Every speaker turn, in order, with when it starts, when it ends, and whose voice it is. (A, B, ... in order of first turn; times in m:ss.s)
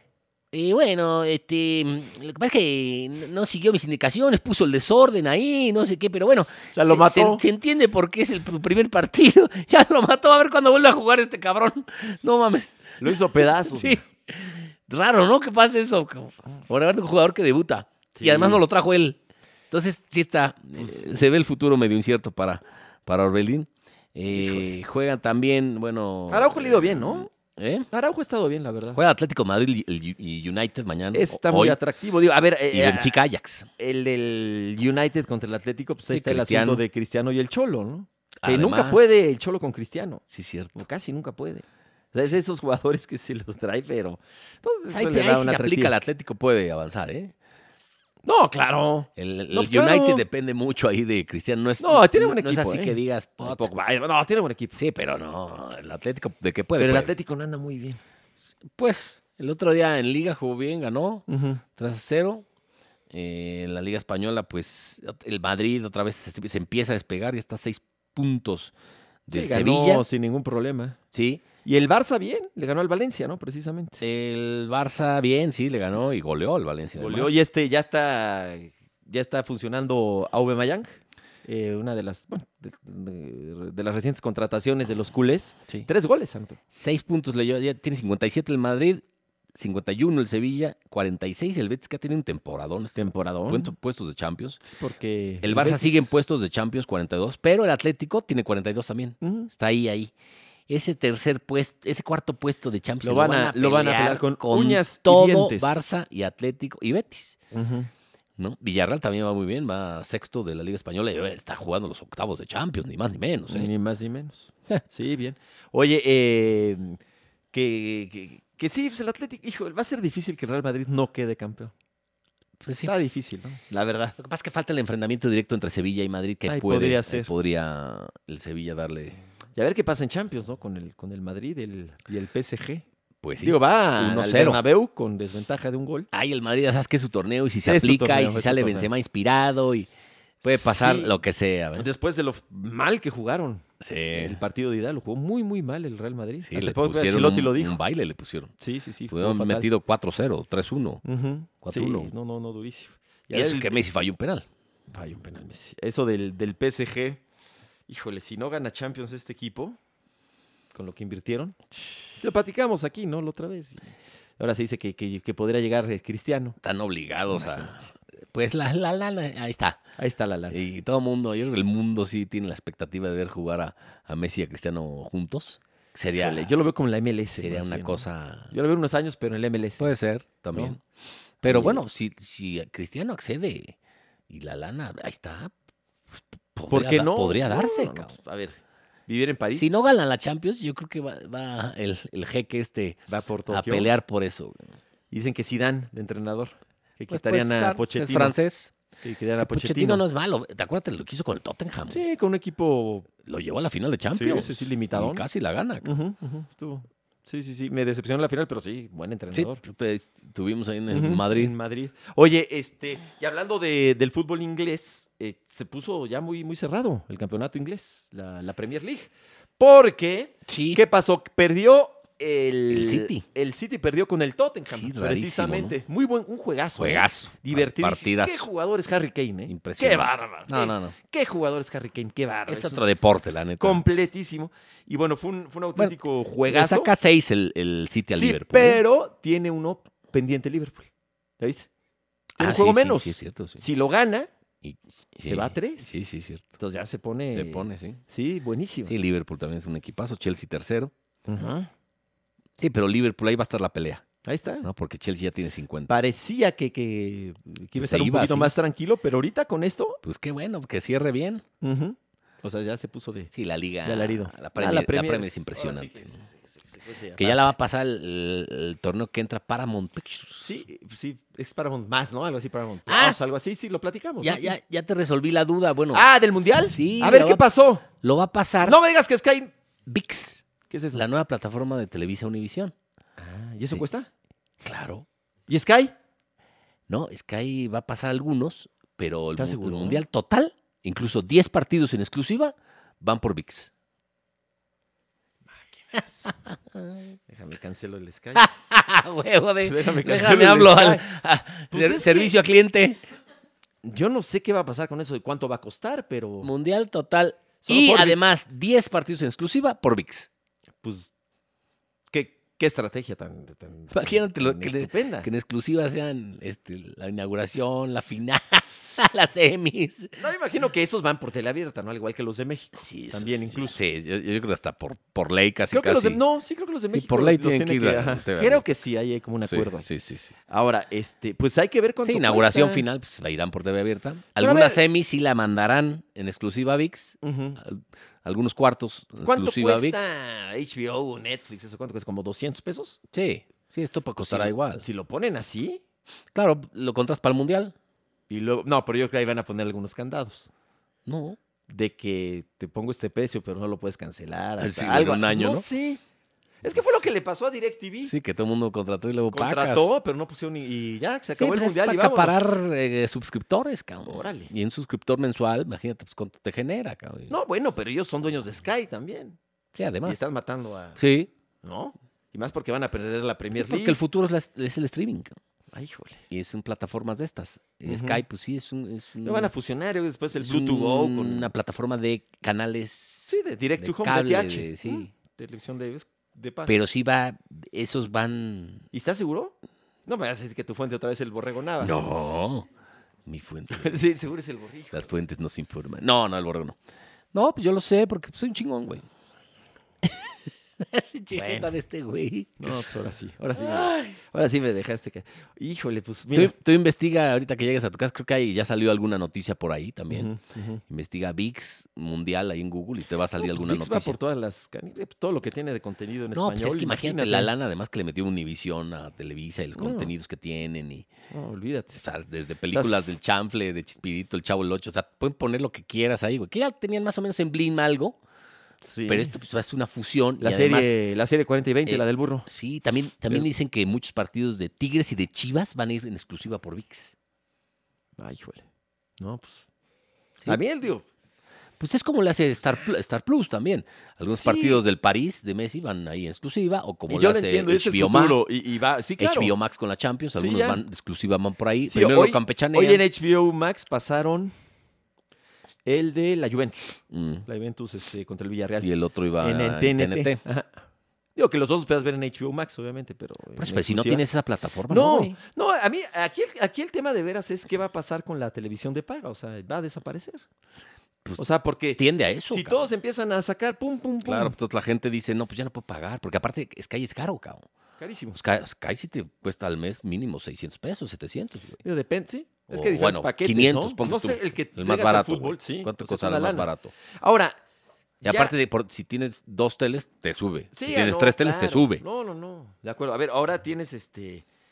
0:00.5-0:19.2 A
0:06.7-0:07.4 B
0:13.0-0:14.0 B
0:18.2-0:18.6 B
0:19.7-0:27.9 A
0:24.3-0:24.7 B
0:26.3-0:27.3 B
0:27.9-0:29.0 B
0:28.9-0:31.8 A
0:31.1-0:33.2 B
0:32.7-0:33.7 A
0:33.8-0:40.2 B
0:36.1-0:36.8 A
0:38.4-0:39.2 A
0:40.3-0:40.8 A
0:40.8-0:46.0 B
0:44.9-0:47.3 A
0:48.2-0:50.2 B
0:49.2-0:53.7 A
0:51.8-0:54.8 B
0:54.8-0:57.1 A
0:56.8-0:58.0 B
0:58.8-1:02.4 A
1:01.3-1:01.6 B
1:03.1-1:08.7 A
1:09.3-1:10.0 A
1:09.3-1:11.0 B
1:11.1-1:11.4 A
1:11.6-1:14.0 B
1:14.0-1:17.4 A
1:17.0-1:26.6 B
1:26.7-1:29.0 A
1:29.6-1:34.6 A
1:33.0-1:33.7 B
1:34.6-1:36.1 B
1:35.4-1:40.1 A
1:39.2-1:39.5 B
1:40.7-1:47.4 A
1:43.0-1:45.9 B
1:47.5-1:47.9 B
1:48.4-1:53.7 A
1:53.5-1:57.0 B
1:57.5-2:01.7 B
2:02.6-2:02.9 A
2:02.8-2:04.2 B
2:04.2-2:09.2 A
2:06.5-2:07.3 B
2:09.6-2:12.8 B
2:13.2-2:14.6 A
2:13.4-2:16.1 B
2:16.1-2:19.9 A
2:17.6-2:18.9 B
2:20.4-2:21.1 B
2:20.4-2:21.9 A
2:21.8-2:27.8 B
2:23.8-2:24.4 A
2:26.5-2:28.5 A
2:28.6-2:29.7 B
2:29.1-2:31.0 A
2:31.0-2:33.8 B
2:31.6-2:32.1 A
2:33.3-2:34.5 A
2:34.9-2:37.2 B
2:37.9-2:39.8 B
2:40.7-2:41.6 B
2:42.2-2:46.6 B
2:46.6-2:49.8 A
2:47.2-2:47.7 B
2:50.0-2:50.6 B
2:50.5-2:56.5 A
2:56.2-2:59.9 B
2:57.4-2:58.5 A
2:59.8-3:00.8 A
3:01.4-3:03.8 A
3:01.4-3:01.8 B
3:04.3-3:05.5 A
3:06.1-3:08.2 A
3:06.7-3:09.9 B
3:09.6-3:14.6 A
3:13.1-3:13.9 B
3:15.1-3:18.4 B
3:17.1-3:18.8 A
3:19.0-3:20.0 B
3:19.4-3:22.0 A
3:21.9-3:23.1 B
3:23.2-3:25.9 A
3:24.1-3:25.2 B
3:25.8-3:29.6 B
3:29.3-3:31.6 A
3:30.9-3:52.9 B
3:40.5-3:40.8 A
3:42.7-3:43.2 A
3:44.7-3:45.8 A
3:46.8-3:48.5 A
3:49.5-3:51.0 A
3:52.5-3:53.8 A
3:53.6-3:56.9 B
3:55.8-3:58.8 A
3:58.1-4:01.7 B
4:02.4-4:04.3 B
4:02.4-4:03.6 A
4:04.6-4:06.5 A
4:05.2-4:06.0 B
4:06.6-4:08.9 B
4:07.3-4:08.0 A
4:08.9-4:10.9 A
4:11.3-4:11.7 B
4:12.6-4:14.1 A
4:14.2-4:14.7 B
4:14.6-4:16.0 A
4:15.9-4:20.0 B
4:17.8-4:18.5 A
4:20.0-4:21.4 A
4:21.6-4:23.3 B
4:23.3-4:26.2 A
4:23.8-4:27.5 B
4:27.2-4:30.5 A
4:30.4-4:34.5 B
4:32.9-4:33.2 A
4:34.2-4:36.1 A
4:35.9-4:37.8 B
4:36.6-4:37.4 A
4:38.0-4:38.8 A
4:38.6-4:39.5 B
4:39.9-4:42.7 A
4:40.7-4:41.0 B
4:43.2-4:44.1 B
4:44.6-4:45.1 A
4:45.5-4:45.9 B
4:46.9-4:53.7 A
4:49.4-4:50.0 B
4:55.9-4:56.3 B
4:56.0-4:57.2 A
4:57.3-4:58.5 B
4:58.4-5:03.0 A
4:59.6-5:01.1 B
5:01.7-5:02.4 B
5:03.8-5:06.5 B
5:06.4-5:10.3 A
5:07.6-5:08.4 B
5:10.8-5:11.1 B
5:12.1-5:15.3 B
5:13.9-5:20.2 A
5:20.2-5:23.8 B
5:22.8-5:26.2 A
5:25.7-5:29.9 B
5:26.9-5:28.6 A
5:29.4-5:30.3 A
5:30.5-5:32.9 B
5:32.0-5:40.2 A
5:34.4-5:34.8 B
5:37.2-5:37.6 B
5:39.2-5:43.0 B
5:43.1-5:44.9 A
5:44.2-5:45.8 B
5:46.3-5:47.7 A
5:48.3-5:50.5 B
5:51.1-5:51.4 A
5:51.7-5:56.0 B
5:54.6-5:55.7 A
5:56.6-5:58.1 B
5:58.1-5:59.9 A
5:59.3-6:02.5 B
6:01.4-6:07.4 A
6:04.1-6:04.5 B
6:07.3-6:09.4 B
6:09.7-6:10.3 A
6:10.0-6:11.0 B
6:11.0-6:11.3 A
6:11.6-6:14.0 B
6:13.5-6:15.4 A
6:15.7-6:16.2 B
6:16.3-6:19.5 A
6:17.8-6:18.2 B
6:19.2-6:21.5 B
6:20.4-6:25.1 A
6:23.3-6:26.8 B
6:26.7-6:28.9 A
6:28.9-6:29.6 B
6:30.1-6:32.0 B
6:31.8-6:32.7 A
6:33.3-6:34.0 A
6:33.7-6:35.1 B
6:34.9-6:36.8 A
6:37.3-6:39.1 A
6:40.0-6:42.9 A
6:41.3-6:41.7 B
6:42.6-6:46.5 B
6:43.6-6:44.2 A
6:46.3-6:50.3 A
6:50.1-6:50.8 B
6:50.9-6:54.2 A
6:53.4-6:57.5 B
6:56.3-7:01.1 A
6:59.8-7:00.1 B
7:01.3-7:02.0 B
7:02.0-7:08.2 A
7:02.7-7:03.2 B
7:08.8-7:09.3 B
7:09.1-7:11.0 A
7:10.4-7:12.5 B
7:11.9-7:17.2 A
7:18.2-7:18.6 B
7:19.2-7:19.7 B
7:20.5-7:21.0 B
7:21.8-7:28.4 A
7:24.3-7:24.8 B
7:27.1-7:29.6 B
7:29.2-7:33.0 A
7:30.4-7:30.8 B
7:31.9-7:34.5 B
7:35.8-7:38.9 B
7:37.1-7:37.5 A
7:38.8-7:40.4 A
7:39.4-7:40.8 B
7:41.4-7:44.2 B
7:43.6-7:45.4 A
7:44.9-7:50.4 B
7:51.4-7:54.6 B
7:52.0-7:52.8 A
7:54.2-7:57.7 A
7:58.0-7:58.4 B
7:58.3-8:01.8 A
8:01.8-8:07.6 B
8:02.7-8:06.9 A
8:08.2-8:08.5 B
8:08.2-8:12.0 A
8:10.7-8:14.5 B